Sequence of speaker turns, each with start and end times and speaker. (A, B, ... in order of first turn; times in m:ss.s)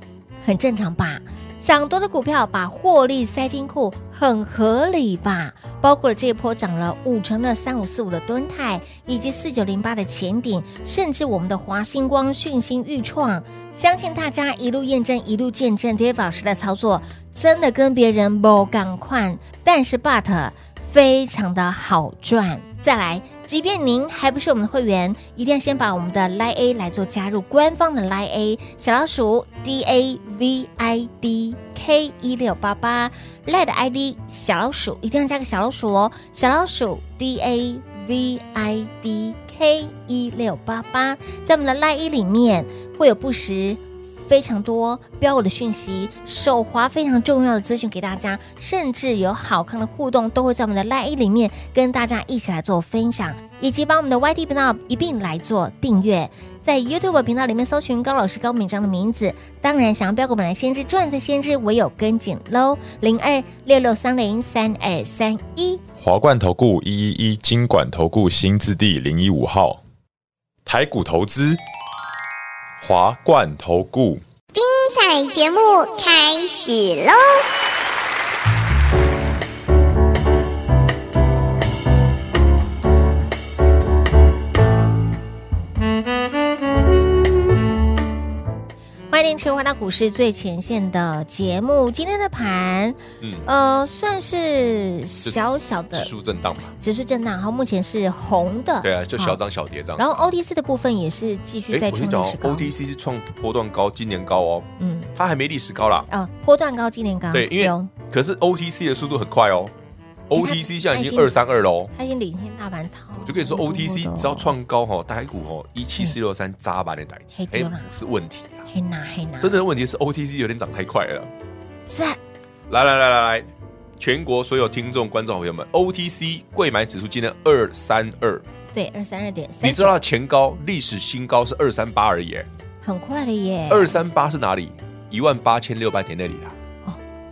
0:00.4-1:05.8 A
1:06.0-1:09.8 B
1:10.6-1:11.6 B
1:12.8-1:14.2 B
1:14.5-1:17.4 C
1:29.1-1:36.1 A
1:33.2-1:33.5 D
1:35.9-1:36.7 D
1:36.8-1:39.4 A
1:38.8-1:40.4 D
1:40.0-1:42.7 A
1:41.7-1:46.1 D
1:44.8-1:45.1 A
1:46.1-1:47.9 A
1:47.3-1:49.7 D
1:50.3-1:51.9 D
1:50.3-1:51.4 A
1:51.9-1:54.5 A
1:53.2-1:58.7 D
1:57.4-1:57.9 A
1:58.7-1:59.6 A
1:59.4-2:01.3 D
2:01.9-2:02.2 A
2:02.7-2:03.5 D
2:04.0-2:08.4 D
2:08.7-2:10.0 A
2:09.6-2:12.5 D
2:12.8-2:14.0 A
2:13.7-2:16.6 D